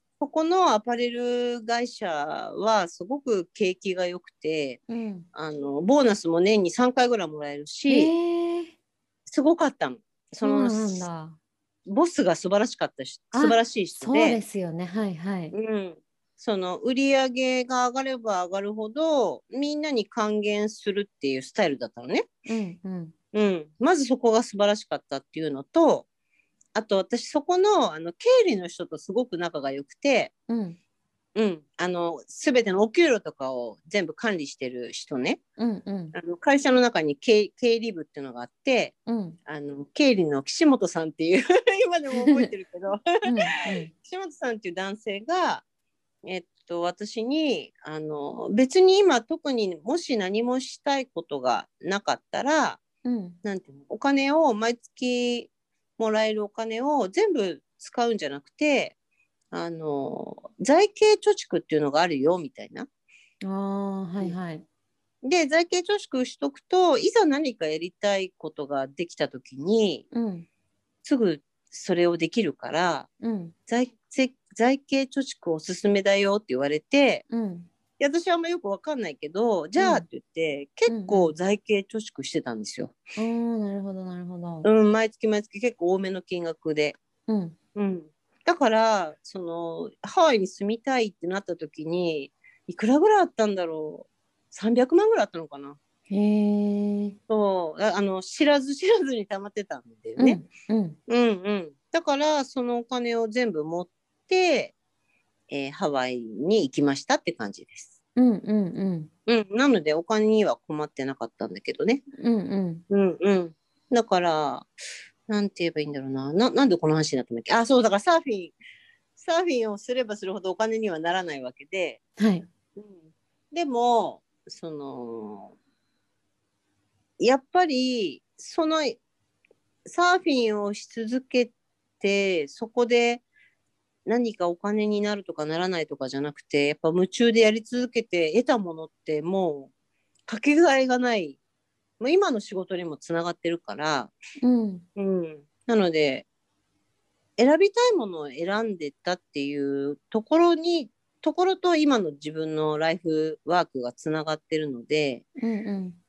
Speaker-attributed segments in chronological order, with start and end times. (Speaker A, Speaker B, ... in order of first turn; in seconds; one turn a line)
Speaker A: 0.2-4.8
Speaker B: 4.9-5.3
Speaker A: 5.3-8.1
Speaker B: 7.9-8.7
Speaker A: 9.3-11.1
Speaker B: 10.4-11.4
Speaker A: 11.8-14.4
Speaker B: 13.3-15.5
Speaker A: 15.5-22.3
Speaker B: 22.4-23.1
Speaker A: 23.3-26.1
Speaker A: 26.7-30.3
Speaker B: 30.5-30.8
Speaker A: 31.3-35.4
Speaker B: 35.6-36.1
Speaker A: 36.1-39.0
Speaker B: 39.1-39.4
Speaker A: 39.5-43.0
Speaker B: 42.2-42.5
Speaker B: 43.2-43.9
Speaker A: 44.0-45.6
Speaker A: 46.2-52.8
Speaker B: 53.0-53.4
Speaker A: 53.4-58.9
Speaker A: 59.5-62.9
Speaker B: 63.4-64.6
Speaker A: 65.2-70.0
Speaker B: 70.1-70.5
Speaker A: 71.0-73.1
Speaker B: 73.2-73.5
Speaker A: 73.7-77.2
Speaker B: 77.3-77.7
Speaker A: 78.0-83.0
Speaker B: 79.8-80.0
Speaker B: 80.9-81.3
Speaker B: 83.2-84.7
Speaker A: 84.6-87.0
Speaker B: 87.3-87.5
Speaker A: 87.7-95.8
Speaker B: 96.1-97.2
Speaker A: 97.3-100.4
Speaker B: 100.2-101.0
Speaker A: 101.1-104.7
Speaker A: 105.5-107.9
Speaker B: 108.2-109.1
Speaker A: 109.3-112.0
Speaker B: 112.2-112.8
Speaker A: 112.9-114.7
Speaker A: 115.3-118.5
Speaker A: 119.2-122.0
Speaker B: 122.2-122.5
Speaker A: 122.8-125.5
Speaker A: 127.2-129.0
Speaker A: 129.8-133.2
Speaker A: 134.1-139.7
Speaker A: 140.3-141.4
Speaker A: 142.0-144.1
Speaker B: 144.4-144.8
Speaker A: 144.9-146.2
Speaker A: 147.4-155.2
Speaker B: 155.4-156.0